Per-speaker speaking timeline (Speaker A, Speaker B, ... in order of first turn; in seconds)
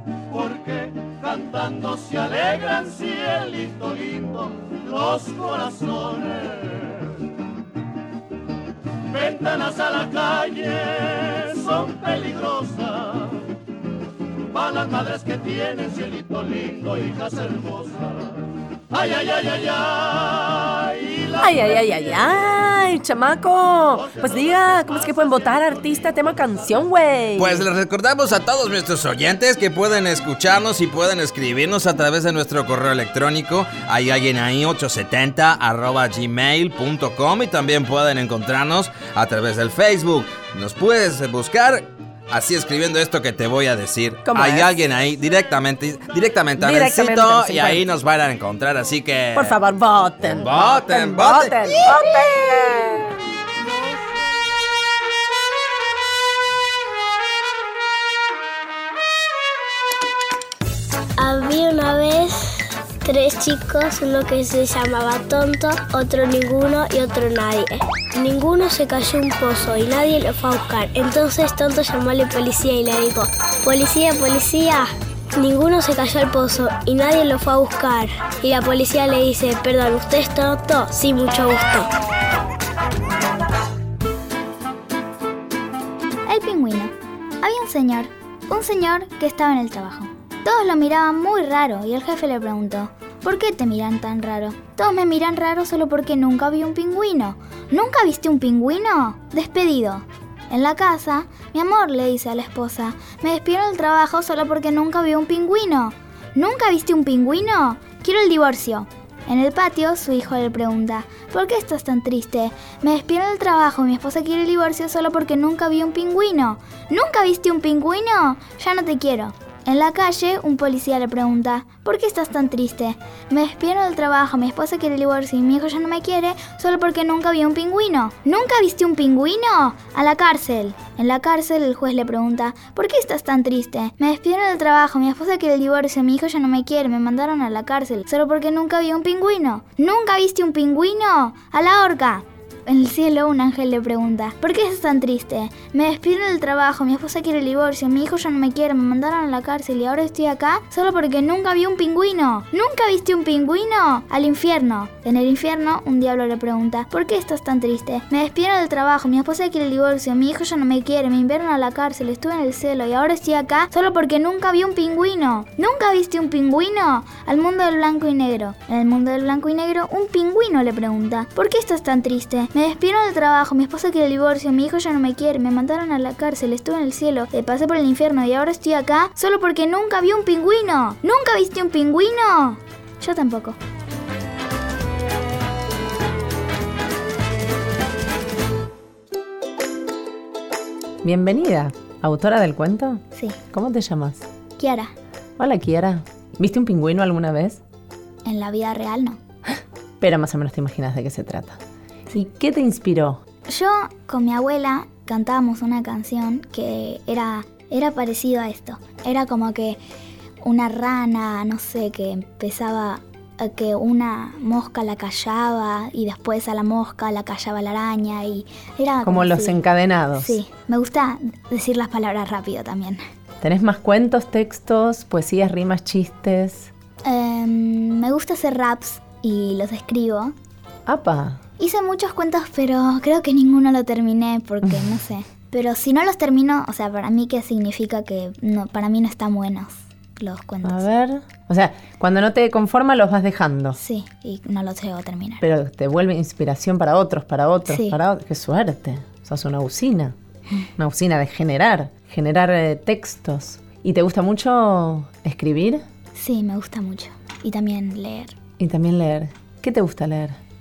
Speaker A: 0.3-6.4, 9.2-12.9, 14.8-17.9, 19.0-20.3
Speaker B: 21.4-27.7, 44.3-44.7, 46.5-47.9, 49.4-52.9
Speaker C: 27.4-49.6, 50.2-51.8
Speaker D: 51.3-52.0, 191.0-194.2, 195.4-197.6, 199.5-201.6, 202.1-203.2, 219.0-220.4, 223.4-226.7, 230.9-231.4, 234.6-234.9, 240.6-243.8, 245.4-250.1, 250.8-255.8, 258.6-260.4
Speaker E: 61.2-62.4, 63.0-81.9
Speaker F: 86.3-183.6, 194.6-194.9, 198.2-199.2, 203.5-209.8, 210.4-219.6, 220.2-223.0, 227.0-230.3, 231.6-240.8, 243.8-245.4, 247.7-248.0, 256.1-258.4